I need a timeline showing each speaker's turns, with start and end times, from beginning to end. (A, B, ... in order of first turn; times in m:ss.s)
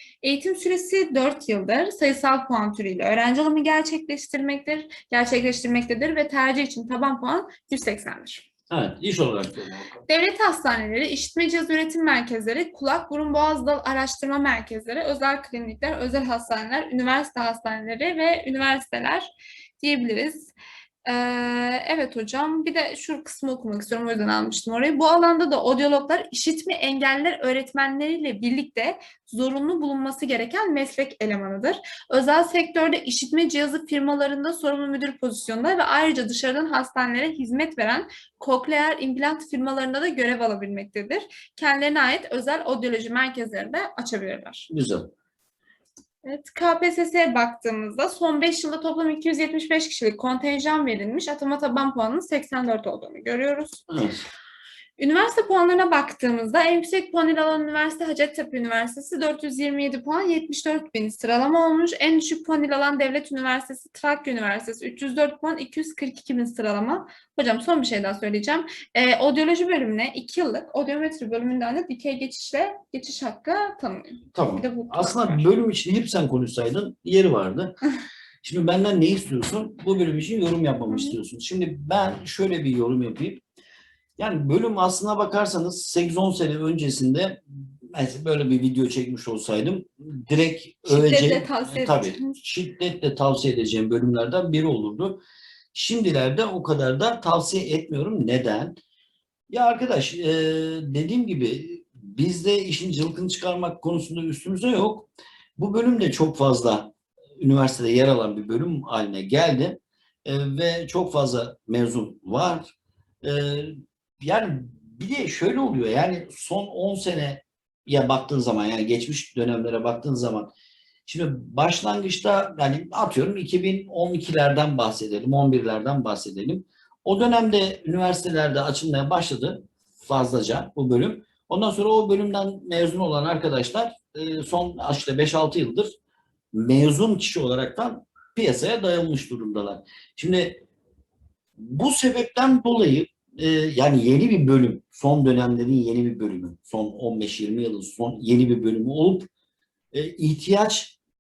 0:00.2-0:08.5 A
0:08.7-0:10.0 B
0:10.1-0:19.3 A
0:19.8-0:20.5 A
0:21.0-0:44.7 A
0:44.7-0:45.1 B
0:46.2-0:53.8 A
0:53.9-0:54.2 B
0:55.0-1:15.5 A
1:14.3-1:17.8 B
1:18.4-1:23.4 B
1:20.9-1:21.2 A
1:24.2-1:35.2 B
1:30.9-1:32.4 A
1:35.7-1:38.8 B
1:39.5-2:00.5 B
2:01.1-2:15.9 B
2:16.5-2:20.6 B
2:21.6-2:29.3 B
2:29.9-2:31.0 B